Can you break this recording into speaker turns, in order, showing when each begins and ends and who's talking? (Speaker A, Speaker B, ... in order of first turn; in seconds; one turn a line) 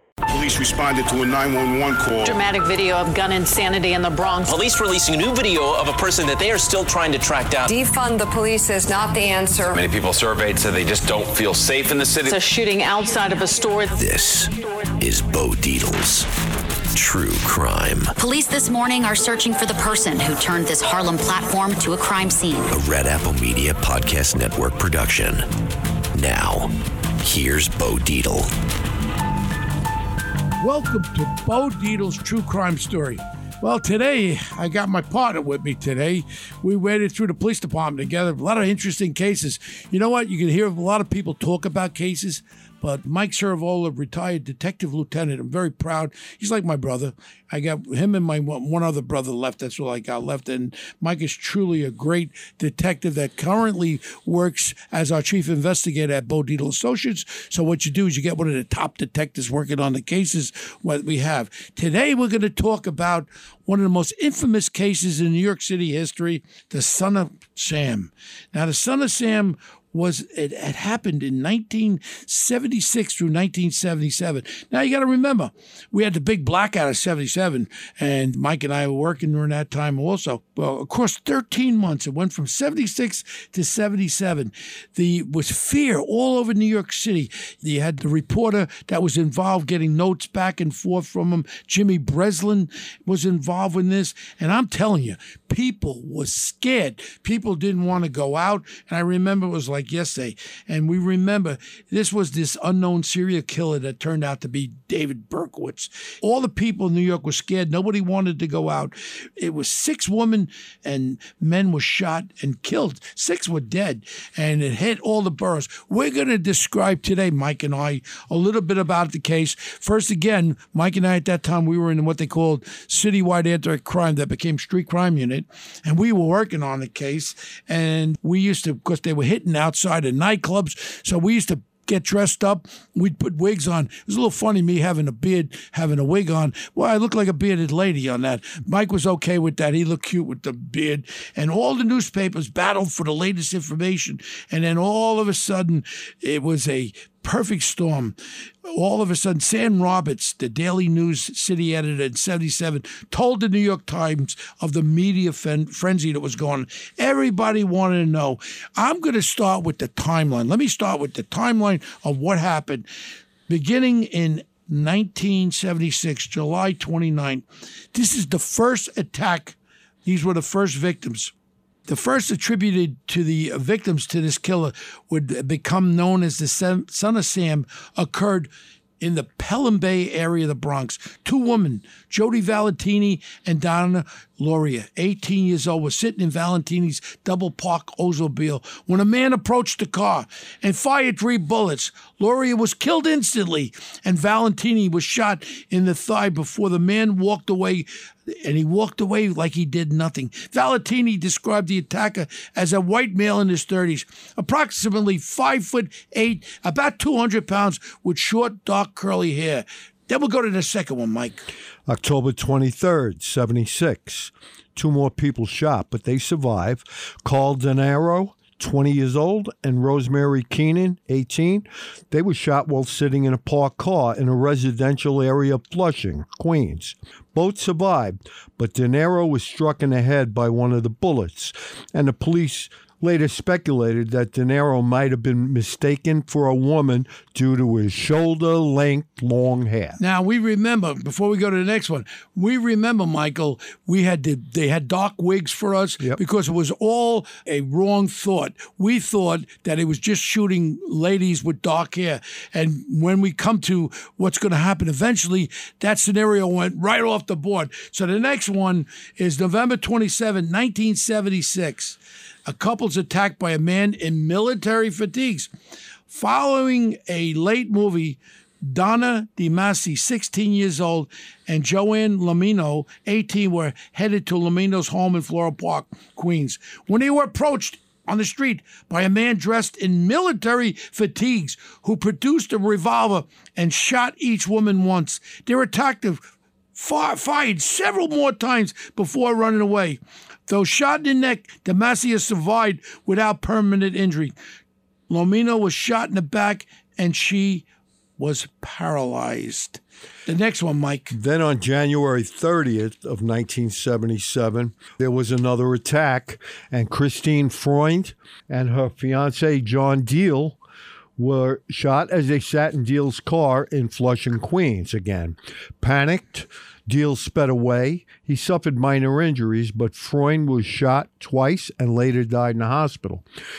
Speaker A: 0.3-2.4
Speaker B: 2.2-4.5
Speaker C: 4.4-7.7
Speaker D: 7.7-9.8
Speaker E: 9.7-12.3
Speaker B: 12.2-13.9
Speaker F: 13.9-16.3
Speaker F: 16.9-18.1
Speaker G: 18.2-22.7
Speaker F: 22.7-25.4
Speaker F: 26.1-28.5
Speaker H: 30.6-162.9
Speaker H: 163.5-171.3
Speaker H: 171.9-211.4
Speaker I: 211.9-240.0
Speaker H: 240.0-265.5
Speaker H: 266.1-294.3
Speaker H: 295.1-297.6
Speaker H: 298.2-301.1
Speaker I: 301.1-310.6
Speaker I: 311.2-323.2